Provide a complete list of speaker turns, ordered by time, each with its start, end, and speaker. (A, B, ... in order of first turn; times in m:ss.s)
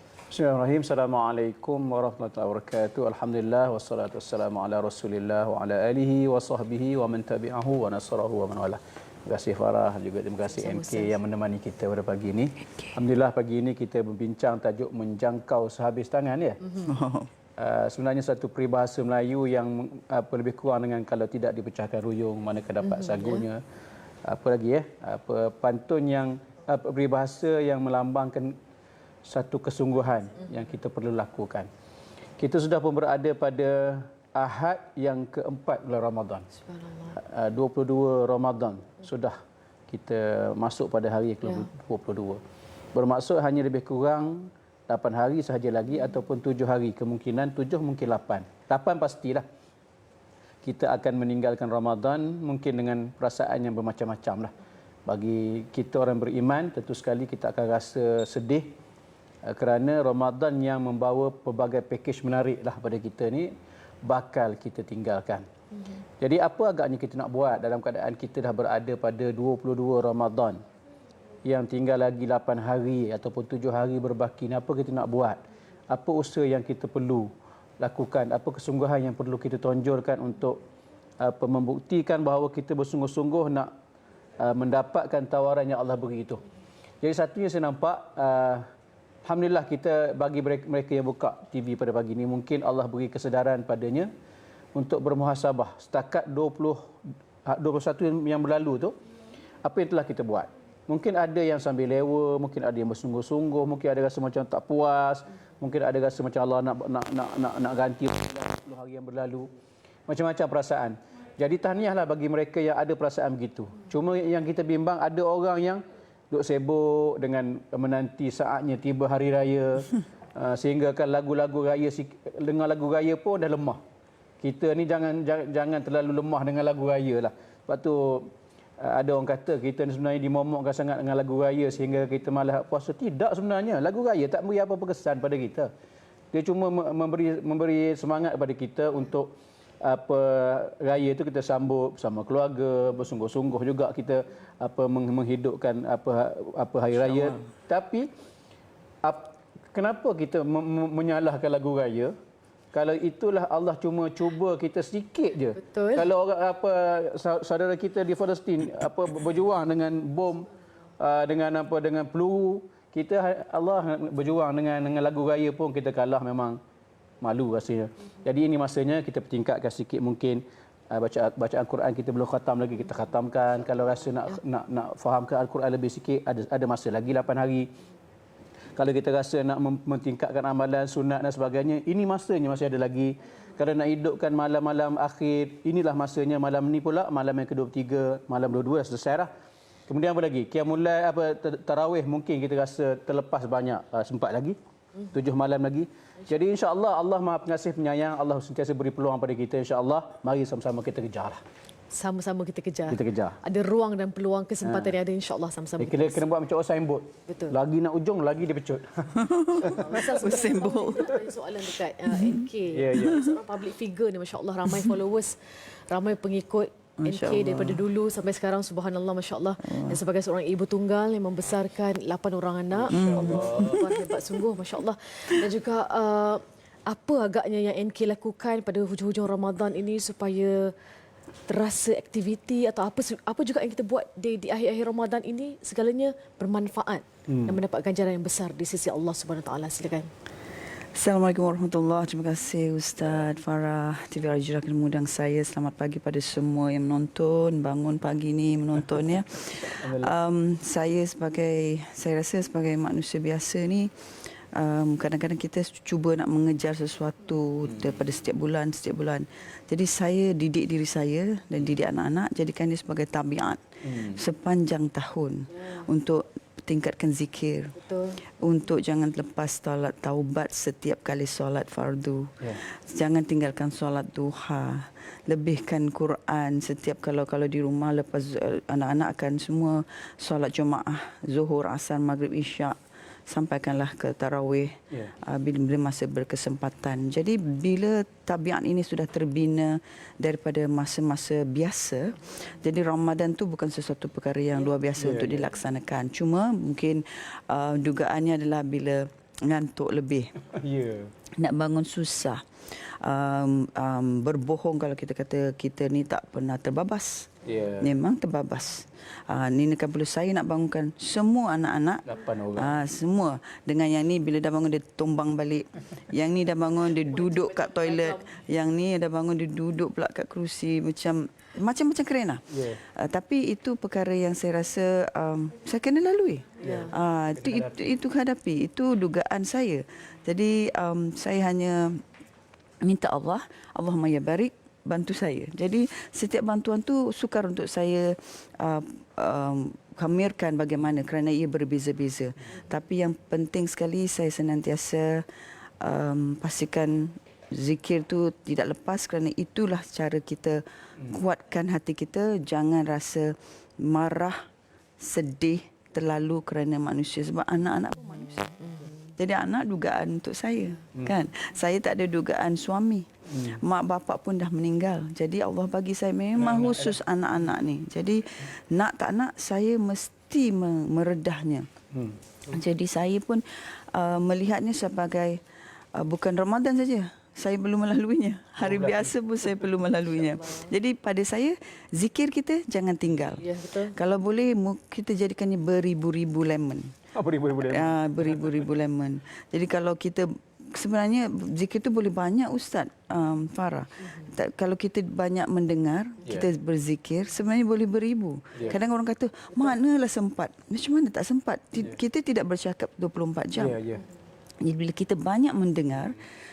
0:00.3-0:16.6 A
0:10.5-0:11.2 B
0:16.6-0:16.9 B
0:16.8-0:17.3 C
0:17.6-0:23.6 A
0:22.8-0:23.4 B
0:24.2-0:28.6 A
0:29.2-0:31.7 A
0:32.4-0:36.4 A
0:36.6-0:37.2 B
0:37.2-0:42.4 A
0:42.9-0:49.4 A
0:50.6-0:54.5 A
0:55.0-0:58.8 A
0:59.4-1:03.5 A
1:04.0-1:05.4 A
1:06.2-1:10.6 A
1:11.4-1:20.6 A
1:21.2-1:23.7 A
1:24.4-1:26.4 A
1:27.0-1:28.6 A
1:29.2-1:34.1 A
1:34.7-1:36.9 A
1:37.4-1:38.9 A
1:39.6-1:49.5 A
1:50.1-2:03.8 A
2:04.4-2:15.7 A
2:16.3-2:28.1 A
2:29.0-2:32.1 A
2:32.7-2:40.5 A
2:35.6-2:36.0 B
2:41.0-2:46.6 A
2:47.2-2:57.7 A
2:58.8-3:09.3 A
3:09.9-3:14.6 A
3:15.1-3:21.4 A
3:21.9-3:26.2 B
3:22.9-3:23.4 A
3:24.6-3:24.9 A
3:25.8-3:29.9 A
3:27.3-3:27.5 B
3:29.1-3:31.1 C
3:29.6-3:35.3 B
3:32.1-3:32.4 C
3:32.7-3:33.3 A
3:35.9-3:50.7 B
3:37.0-3:37.8 C
3:39.6-3:40.0 C
3:42.7-3:43.8 A
3:42.9-3:43.9 C
3:51.5-4:00.1 B
3:57.3-3:57.6 A
4:00.9-4:13.9 C
4:09.6-4:10.1 A
4:14.5-4:27.8 C
4:23.9-4:24.1 A
4:27.8-4:28.2 B
4:28.4-4:42.8 C
4:43.3-5:00.3 C
4:55.0-4:55.5 A
5:00.5-5:01.1 A
5:01.4-5:12.0 C
5:07.4-5:07.9 A
5:12.0-5:12.8 A
5:12.6-5:32.0 C
5:17.4-5:18.1 B
5:22.5-5:22.8 A
5:26.6-5:27.7 A
5:32.8-5:45.2 C
5:45.8-5:54.4 C
5:55.0-6:11.7 C
6:03.3-6:03.6 A
6:06.4-6:06.9 A
6:12.5-6:15.4 C
6:15.9-6:26.9 C
6:18.6-6:19.1 A
6:20.4-6:20.7 B
6:23.4-6:24.0 B
6:27.1-6:28.6 A
6:27.6-6:43.8 C
6:43.6-6:44.0 A
6:44.6-6:46.2 C